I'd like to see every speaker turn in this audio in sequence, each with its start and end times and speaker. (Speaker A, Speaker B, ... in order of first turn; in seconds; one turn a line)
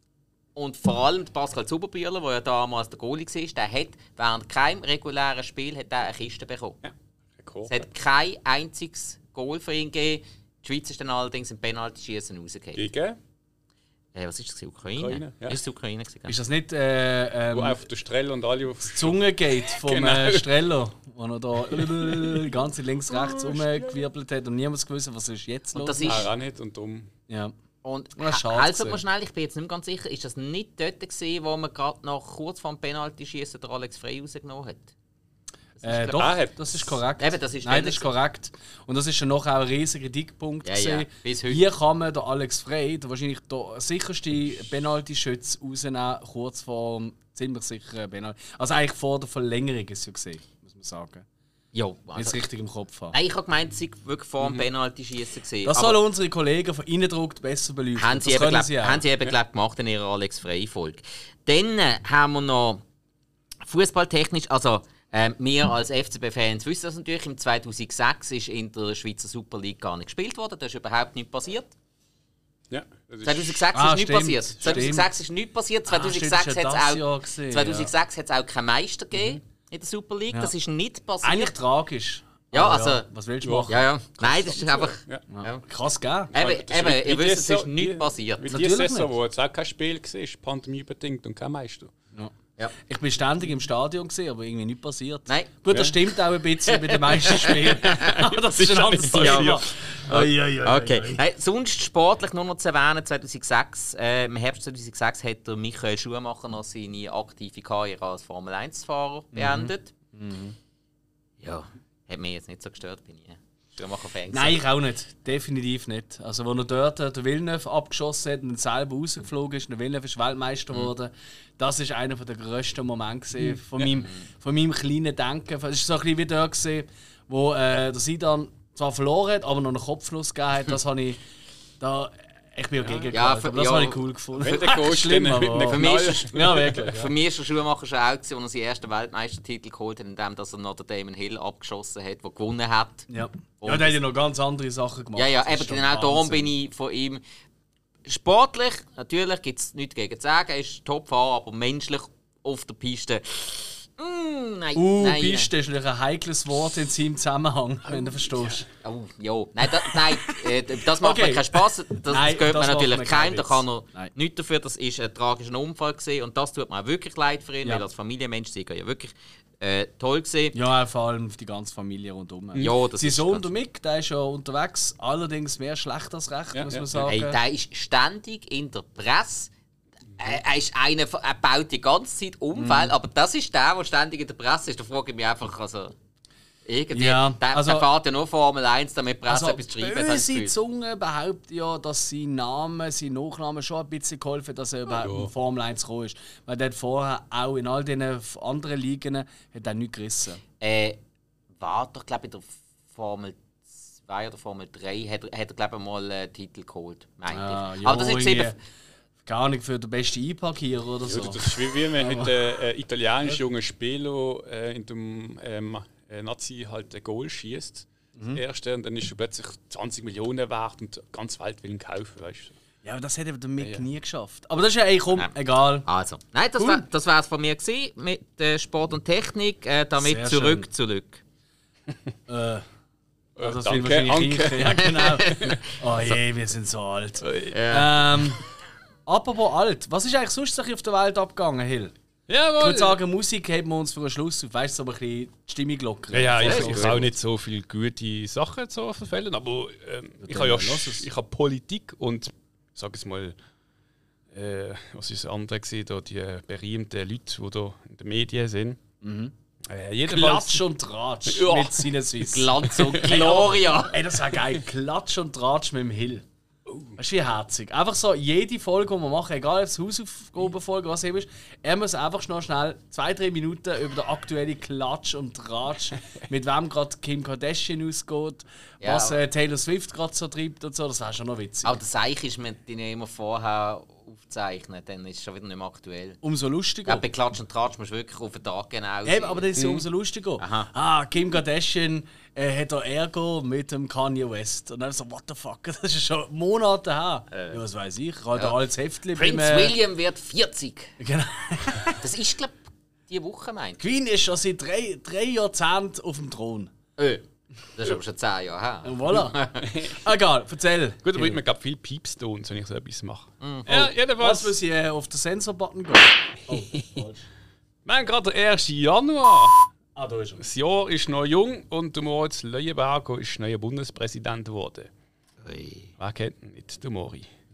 Speaker A: 0.6-6.8
Speaker B: 6.8-7.8
Speaker A: 7.7-12.8
Speaker B: 12.8-13.2
Speaker A: 14.1-16.4
Speaker B: 15.0-15.6
Speaker C: 16.3-17.8
Speaker B: 17.5-20.5
Speaker C: 18.9-26.2
Speaker B: 21.7-22.5
Speaker B: 23.1-24.0
Speaker A: 25.7-26.3
Speaker B: 26.0-27.1
Speaker C: 27.3-27.5
Speaker A: 27.8-34.9
Speaker C: 28.2-29.0
Speaker A: 35.8-36.3
Speaker C: 35.8-51.2
Speaker B: 36.2-36.6
Speaker A: 37.2-38.1
Speaker A: 40.6-41.7
Speaker A: 51.7-52.4
Speaker C: 52.1-53.1
Speaker A: 53.1-56.0
Speaker C: 55.6-59.0
Speaker A: 58.0-62.8
Speaker A: 63.6-71.7
Speaker B: 72.7-73.7
Speaker A: 73.2-81.5
Speaker C: 73.7-75.1
Speaker C: 75.9-77.9
Speaker C: 81.2-83.8
Speaker A: 82.5-83.1
Speaker B: 83.4-85.2
Speaker A: 83.7-85.6
Speaker C: 85.3-86.3
Speaker A: 86.3-88.5
Speaker B: 86.3-91.9
Speaker C: 88.5-89.1
Speaker C: 92.1-101.2
Speaker A: 96.1-98.3
Speaker B: 97.8-100.3
Speaker A: 99.0-99.6
Speaker A: 100.6-109.9
Speaker C: 109.3-110.6
Speaker A: 111.4-114.6
Speaker C: 114.3-131.2
Speaker A: 124.0-124.3
Speaker C: 131.8-137.1
Speaker A: 133.1-134.0
Speaker B: 134.4-137.0
Speaker A: 135.7-144.0
Speaker C: 143.1-146.5
Speaker A: 145.2-147.2
Speaker A: 148.1-155.5
Speaker C: 154.8-158.7
Speaker A: 158.8-170.6
Speaker C: 159.9-164.1
Speaker C: 170.5-177.4
Speaker A: 172.6-173.5
Speaker B: 176.5-177.1
Speaker A: 177.1-179.5
Speaker A: 180.2-185.9
Speaker C: 182.6-182.9
Speaker A: 186.7-190.5
Speaker C: 186.9-187.9
Speaker C: 189.3-200.4
Speaker B: 194.9-195.3
Speaker A: 200.6-201.0
Speaker A: 201.6-208.6
Speaker C: 207.3-208.6
Speaker C: 209.2-212.3
Speaker B: 211.0-222.6
Speaker C: 218.2-218.4
Speaker C: 222.8-225.9
Speaker A: 225.8-231.2
Speaker C: 226.6-226.8
Speaker C: 230.0-230.7
Speaker C: 232.3-232.7
Speaker B: 233.4-235.5
Speaker C: 233.4-238.4
Speaker A: 234.7-236.2
Speaker B: 237.2-237.6
Speaker A: 237.5-238.1
Speaker C: 239.1-241.9
Speaker B: 242.3-243.0
Speaker C: 242.6-247.1
Speaker B: 246.1-253.4
Speaker A: 246.4-247.0
Speaker C: 250.2-251.1
Speaker B: 254.3-258.8
Speaker C: 259.0-259.3
Speaker B: 259.7-260.6
Speaker C: 260.1-266.2
Speaker B: 261.3-261.9
Speaker A: 262.2-264.1
Speaker B: 262.6-263.5
Speaker B: 266.7-266.9
Speaker C: 267.0-281.7
Speaker A: 278.8-279.2
Speaker A: 281.6-286.2
Speaker C: 286.2-287.1
Speaker A: 286.9-289.5
Speaker C: 289.1-299.8
Speaker B: 289.6-289.9
Speaker A: 290.4-290.7
Speaker A: 297.3-297.6
Speaker A: 299.1-301.0
Speaker C: 301.0-302.1
Speaker A: 302.0-303.8
Speaker C: 303.8-306.7
Speaker A: 307.0-309.7
Speaker C: 308.8-311.4
Speaker B: 309.6-309.9
Speaker B: 311.0-314.6
Speaker A: 313.4-313.7
Speaker C: 313.7-317.3
Speaker B: 317.9-319.7
Speaker C: 319.9-320.4
Speaker B: 320.4-324.9
Speaker A: 325.4-325.9
Speaker B: 326.0-327.3